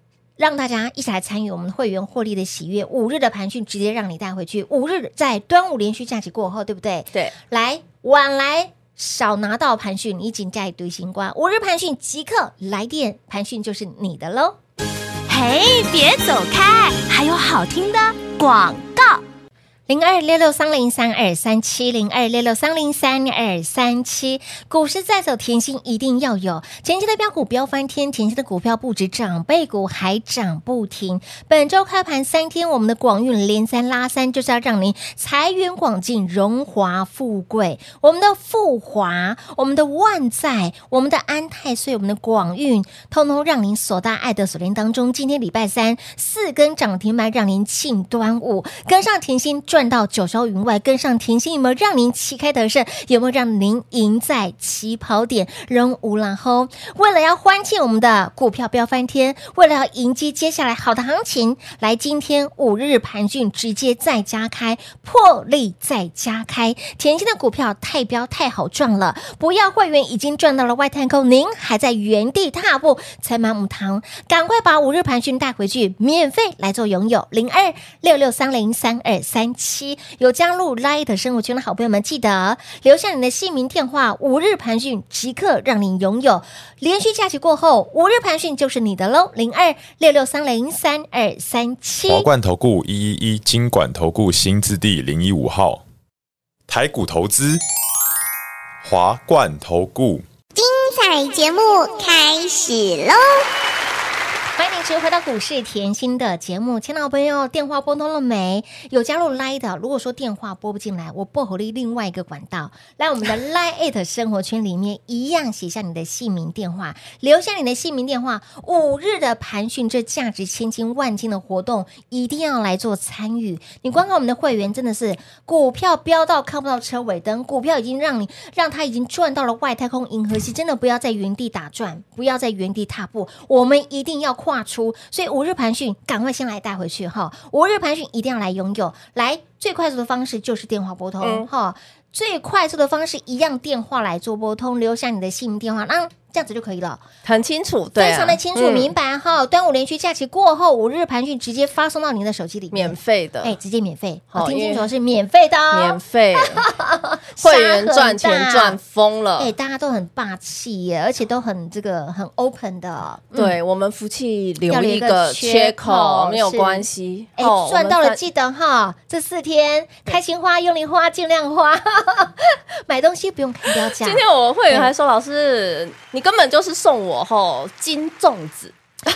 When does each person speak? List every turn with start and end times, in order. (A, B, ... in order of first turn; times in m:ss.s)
0:00.4-0:14.6 A
0:15.3-0:19.2 B
0:19.9-1:32.3 A
1:32.1-1:35.8 C
1:36.7-1:37.6 C
1:38.8-1:40.2 C
1:40.6-1:43.3 D
1:44.6-2:27.0 A
2:21.2-2:21.5 E
2:27.2-2:28.9 E
2:28.0-2:38.8 A
2:32.7-2:33.6 E
2:34.3-2:34.9 E
2:35.7-2:36.6 E
2:37.4-2:39.5 E
2:39.4-2:43.6 A
2:43.4-2:48.2 E
2:44.7-2:46.9 A
2:47.4-2:54.9 A
2:54.0-2:58.7 E